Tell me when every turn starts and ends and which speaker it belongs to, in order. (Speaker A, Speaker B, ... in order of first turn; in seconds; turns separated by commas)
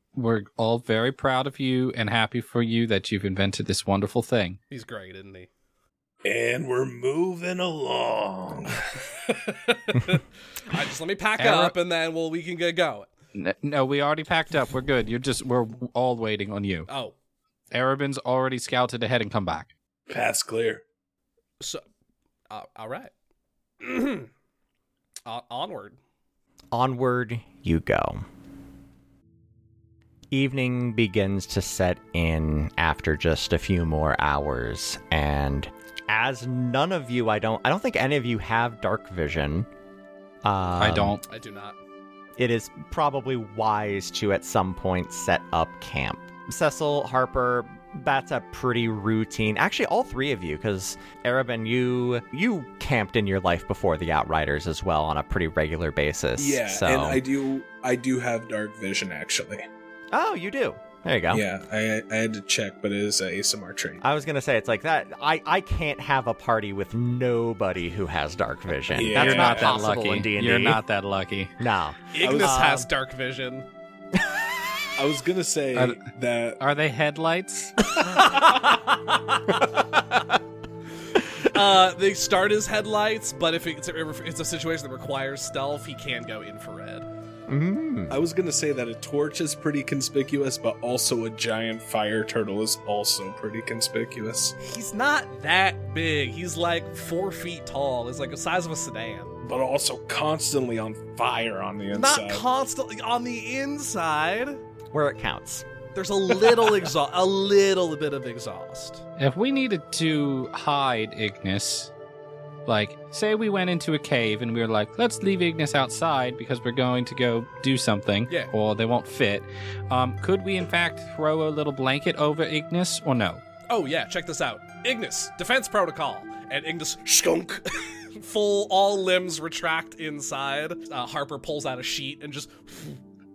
Speaker A: 0.1-4.6, Speaker B: 4.7-5.5, Speaker C: 6.2-9.6, Speaker B: 9.6-13.1, Speaker A: 11.4-11.7, Speaker A: 13.3-16.9, Speaker B: 16.9-17.1, Speaker A: 17.7-19.7, Speaker C: 20.1-20.8, Speaker B: 22.5-23.1, Speaker B: 23.8-24.3, Speaker B: 25.2-26.0, Speaker D: 26.7-28.2, Speaker D: 30.3-39.7, Speaker D: 40.4-41.2, Speaker A: 40.8-41.2, Speaker B: 41.2-41.8, Speaker D: 42.4-57.2, Speaker C: 56.4-59.6, Speaker D: 60.1-61.4, Speaker C: 61.3-64.0, Speaker D: 64.0-70.8, Speaker C: 68.9-69.8, Speaker A: 69.1-71.5, Speaker D: 71.6-72.9, Speaker B: 72.1-73.7, Speaker C: 72.2-72.6, Speaker D: 74.2-74.7, Speaker C: 75.0-76.6, Speaker A: 76.6-78.0, Speaker B: 78.1-78.8, Speaker B: 81.3-87.1, Speaker D: 87.5-88.2, Speaker C: 88.1-94.5, Speaker B: 94.6-99.3, Speaker C: 99.4-102.4, Speaker B: 101.9-104.6, Speaker D: 104.9-105.7, Speaker B: 105.9-109.0, Speaker A: 109.2-111.9, Speaker A: 112.7-123.4, Speaker B: 123.7-133.0